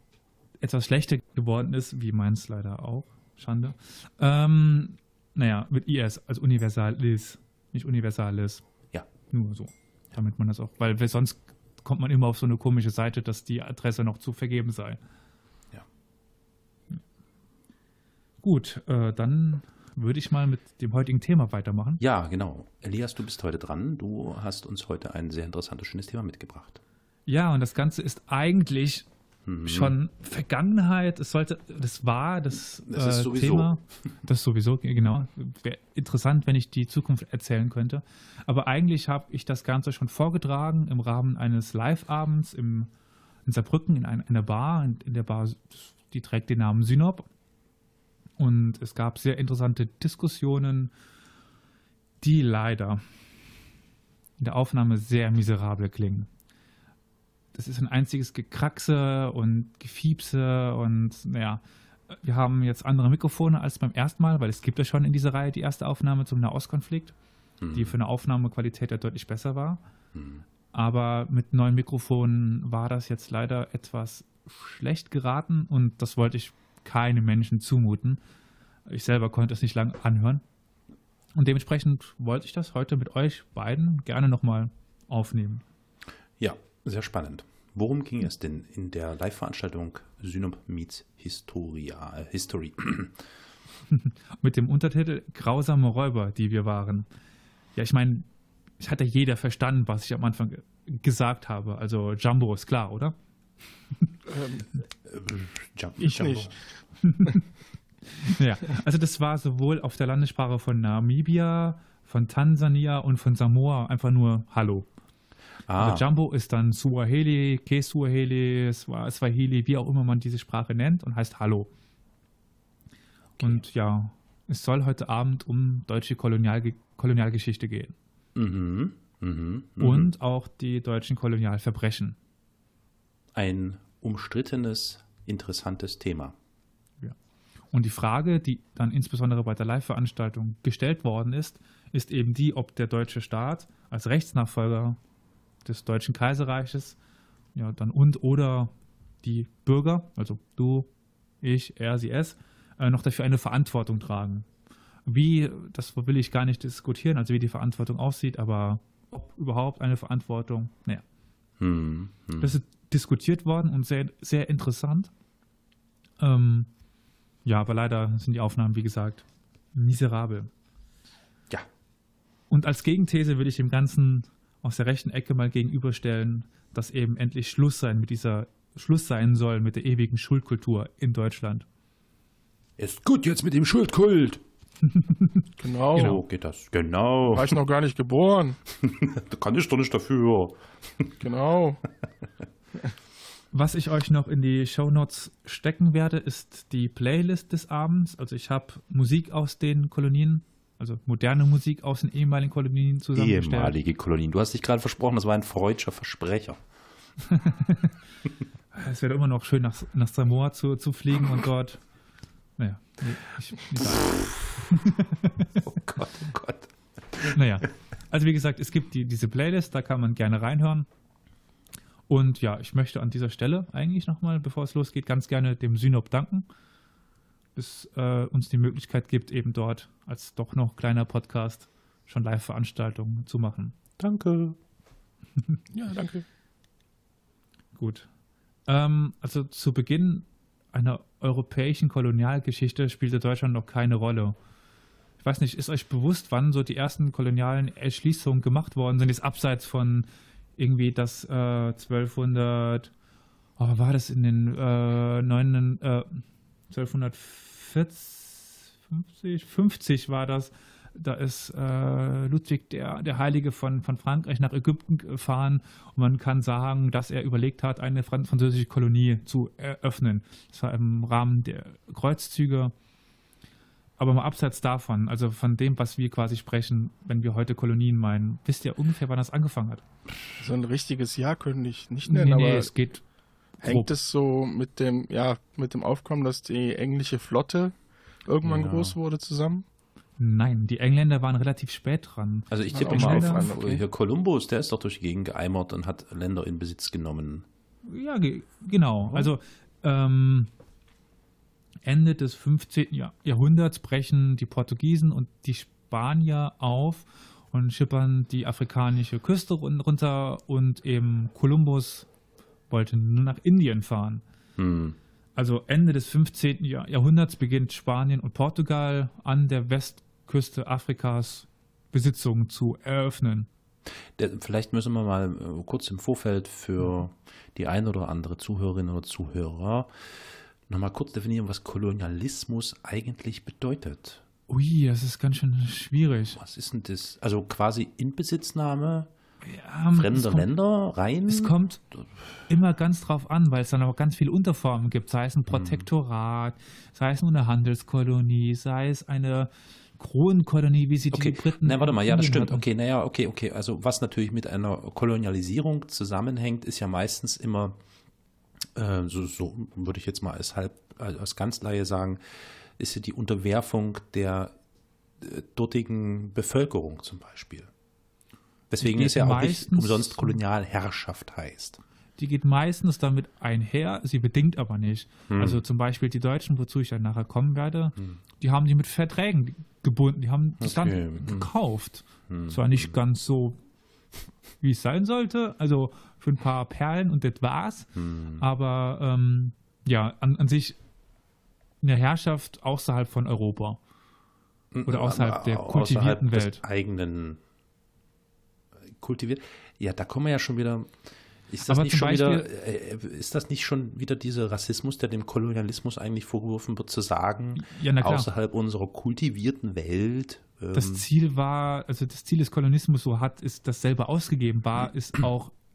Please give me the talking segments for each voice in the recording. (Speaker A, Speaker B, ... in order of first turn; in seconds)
Speaker A: 0.6-8.6, 9.3-15.0, 18.4-22.0, 27.3-29.1, 29.6-42.9, 43.5-47.3, 48.4-50.9, 52.2-53.0, 54.4-56.3, 57.5-61.6, 62.1-67.2, 67.7-69.8, 70.7-78.2, 78.9-80.4, 81.3-85.6, 93.9-97.1, 97.8-98.3, 98.8-103.2, 107.0-107.5, 108.1-114.9, 115.8-121.7, 123.4-128.0, 129.8-132.2, 137.7-145.0, 145.7-147.0, 147.6-150.9, 151.4-154.5, 155.1-161.0, 162.4-165.1, 166.2-166.7, 167.4-170.5, 172.5-181.7, 184.9-186.2, 193.5-203.8, 207.2-207.9, 208.7-211.8, 212.6-215.6, 217.3-220.9, 222.1-226.5, 227.6-233.8, 237.8-238.1, 238.7-244.4, 245.2-252.9, 253.6-272.7, 274.0-279.8, 282.1-283.0, 283.6-283.9, 290.2-293.8, 297.9-300.5, 301.9-312.1, 312.7-314.2, 315.4-323.5, 334.5-336.4, 339.4-340.5, 341.3-341.8, 342.5-352.7, 368.8-370.4, 372.2-383.6, 384.6-390.8, 391.8-393.8, 394.9-396.6, 401.6-402.5, 407.6-408.3, 410.7-415.6
Speaker B: 22.0-26.8, 29.5-29.9, 32.9-33.7, 67.6-67.9, 70.1-70.5, 86.4-93.2, 105.0-106.5, 115.7-116.1, 128.3-130.1, 133.3-136.3, 161.6-162.5, 182.8-184.4, 185.9-187.6, 188.8-191.2, 203.2-206.6, 214.1-214.4, 215.6-217.4, 234.0-234.6, 288.4-288.9, 292.5-297.5, 314.6-315.0, 324.2-334.2, 336.4-339.1, 339.9-341.6, 345.5-345.9, 351.1-357.8, 358.8-364.5, 365.2-367.7, 368.7-371.8, 375.3-375.6, 380.6-381.5, 382.3-382.9, 387.9-388.4, 394.7-397.4, 398.8-411.1
Speaker C: 104.3-104.7, 106.0-106.5, 185.6-186.2, 187.3-188.6, 191.2-191.8, 235.7-236.2, 280.4-282.7, 283.6-287.8, 288.3-289.6, 292.7-293.8